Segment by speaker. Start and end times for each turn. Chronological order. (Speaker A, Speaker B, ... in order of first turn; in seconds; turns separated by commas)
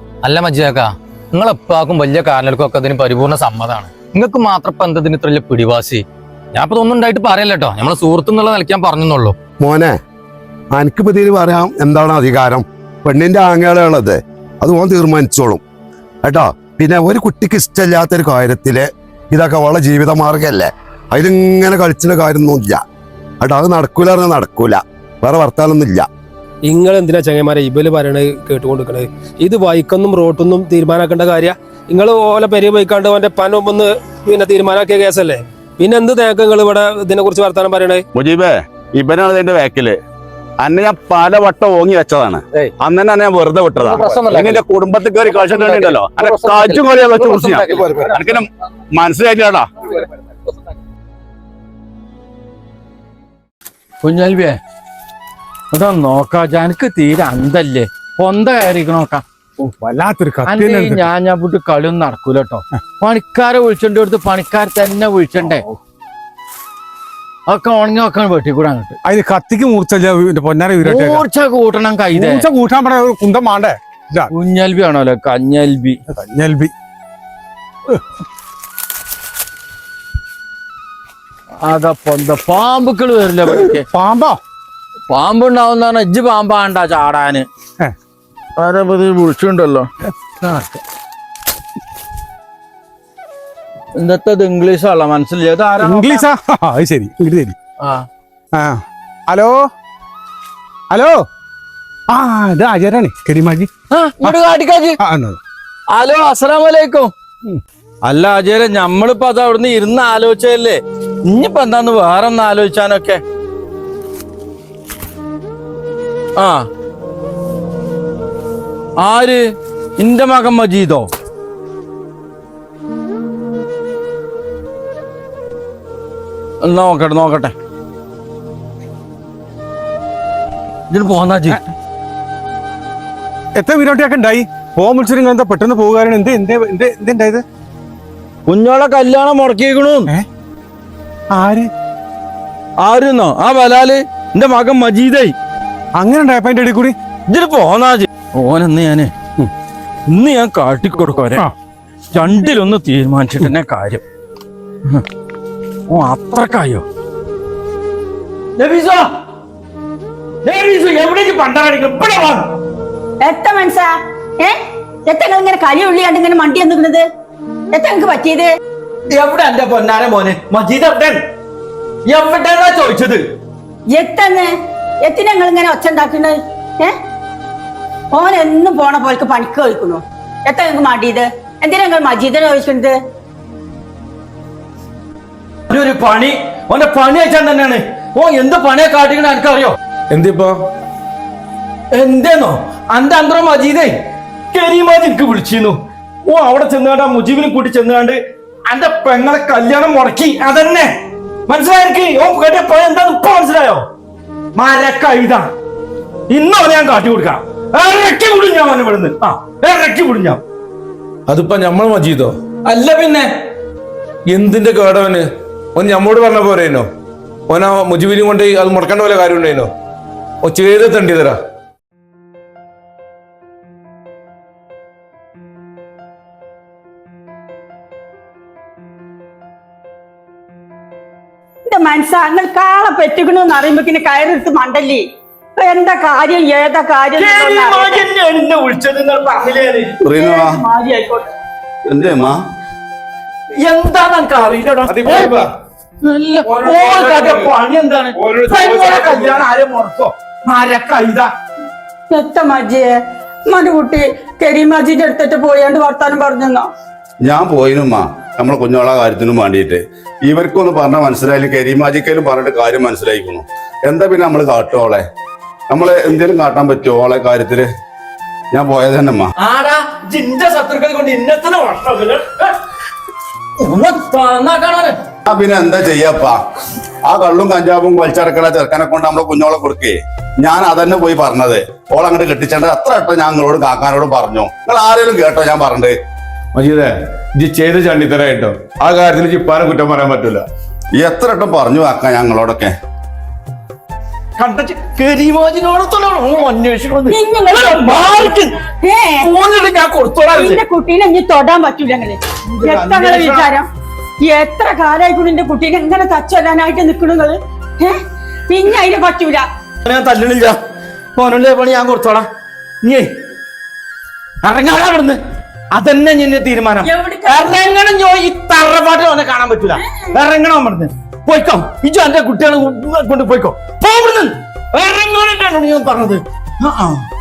Speaker A: 0.2-9.3, Speaker B: 9.6-10.0, Speaker B: 10.7-15.6, Speaker B: 16.2-22.8, Speaker B: 23.4-26.1, Speaker C: 26.7-38.0, Speaker D: 38.1-40.0, Speaker D: 40.6-49.7, Speaker A: 43.8-44.6, Speaker A: 45.3-48.0, Speaker E: 54.0-54.6, Speaker E: 55.7-59.2, Speaker F: 59.6-61.1, Speaker E: 60.4-65.6, Speaker E: 67.5-69.0, Speaker F: 69.0-71.2, Speaker E: 70.8-72.4, Speaker F: 72.1-74.3, Speaker E: 74.3-76.0, Speaker F: 76.1-76.7, Speaker E: 81.6-83.9, Speaker F: 83.5-84.4, Speaker E: 85.1-87.5, Speaker E: 88.6-89.9, Speaker E: 90.4-90.8, Speaker E: 94.0-96.2, Speaker F: 95.8-97.5, Speaker E: 97.8-98.0, Speaker F: 98.5-99.7, Speaker F: 100.9-101.2, Speaker F: 102.1-103.7, Speaker E: 103.9-105.0, Speaker F: 105.0-105.4, Speaker E: 105.9-107.1, Speaker E: 108.0-113.2, Speaker E: 116.4-116.6, Speaker E: 119.0-119.4, Speaker E: 120.0-121.1, Speaker E: 126.6-127.5, Speaker E: 130.9-131.6, Speaker F: 133.6-137.4, Speaker E: 138.5-140.1, Speaker F: 141.3-141.7, Speaker E: 142.8-145.3, Speaker F: 145.9-146.9, Speaker E: 147.3-149.1, Speaker E: 150.1-151.4, Speaker E: 152.1-154.0, Speaker E: 155.9-156.8, Speaker E: 158.6-159.1, Speaker E: 160.4-162.5, Speaker G: 163.2-167.0, Speaker G: 167.7-168.5, Speaker E: 169.1-171.2, Speaker E: 172.1-173.2, Speaker G: 173.9-174.5, Speaker G: 175.0-176.9, Speaker G: 178.1-182.9, Speaker E: 185.7-189.8, Speaker H: 190.1-190.6, Speaker E: 191.9-193.9, Speaker E: 194.5-200.9, Speaker E: 201.5-203.8, Speaker E: 204.6-205.5, Speaker E: 206.3-210.4, Speaker H: 211.3-212.3, Speaker E: 212.7-213.3, Speaker H: 214.3-216.9, Speaker H: 217.5-219.7, Speaker H: 220.4-221.4, Speaker G: 231.7-235.0, Speaker G: 235.6-238.0, Speaker E: 237.2-240.0, Speaker D: 240.0-240.6, Speaker G: 240.1-241.2, Speaker D: 241.9-242.4, Speaker E: 243.6-245.5, Speaker H: 244.8-245.5, Speaker E: 246.0-251.3, Speaker H: 246.5-247.5, Speaker H: 248.1-249.4, Speaker G: 252.1-252.9, Speaker G: 253.5-256.6, Speaker D: 257.2-265.0, Speaker D: 265.7-267.7, Speaker D: 268.5-269.3, Speaker E: 269.4-272.6, Speaker E: 273.6-275.0, Speaker D: 275.2-276.4, Speaker D: 277.1-285.9, Speaker H: 286.5-290.4, Speaker D: 291.0-292.7, Speaker E: 294.4-298.6, Speaker G: 297.1-299.3, Speaker E: 299.2-300.6, Speaker G: 300.3-303.7, Speaker E: 302.6-303.4, Speaker G: 304.2-309.4, Speaker E: 309.9-310.6, Speaker E: 311.2-312.2, Speaker E: 312.8-313.1, Speaker E: 314.4-315.2, Speaker E: 315.7-327.0, Speaker G: 316.8-317.5